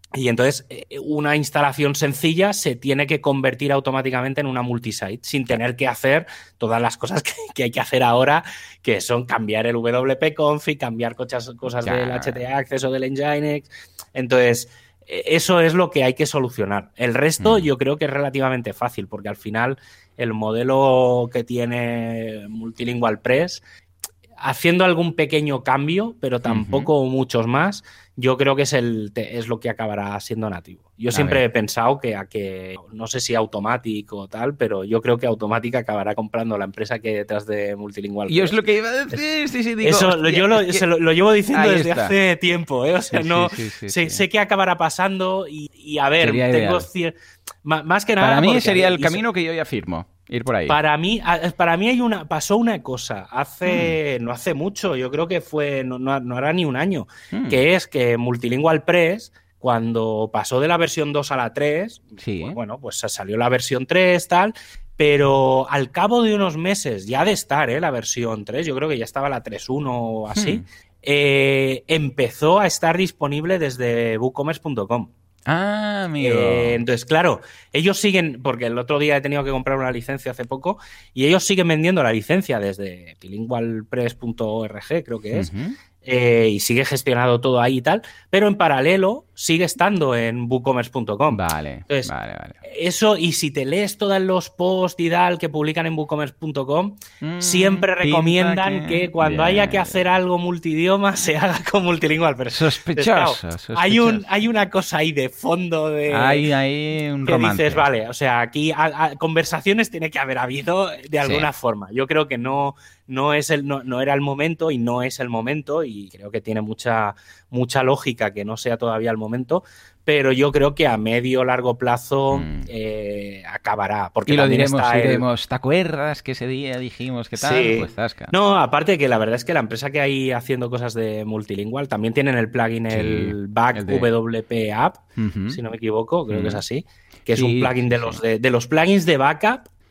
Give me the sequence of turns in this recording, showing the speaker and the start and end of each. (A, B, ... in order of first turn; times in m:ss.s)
0:00.2-0:23.6 A
0:11.8-0:12.4 B
0:17.4-0:17.7 B
0:24.4-0:38.6 A
0:26.4-0:26.9 B
0:31.1-0:31.4 B
0:38.3-0:40.8 B
0:39.8-0:49.2 A
0:41.5-0:42.1 B
0:43.1-0:44.2 B
0:46.2-0:46.9 B
0:48.2-0:50.8 B
0:50.7-1:15.1 A
0:53.7-0:54.0 B
0:57.3-0:57.6 B
1:02.2-1:02.6 B
1:10.3-1:10.6 B
1:15.5-1:16.8 B
1:16.2-1:25.5 A
1:25.3-1:25.8 B
1:26.0-1:32.1 A
1:31.3-1:32.6 B
1:32.6-1:46.5 A
1:37.2-1:40.1 B
1:42.5-1:44.2 B
1:46.1-1:47.9 B
1:47.2-2:05.2 A
1:51.2-1:51.5 B
2:02.3-2:02.7 B
2:04.3-2:08.3 B
2:07.4-2:19.7 A
2:12.9-2:14.1 B
2:15.2-2:15.6 B
2:16.3-2:16.6 B
2:17.3-2:18.2 B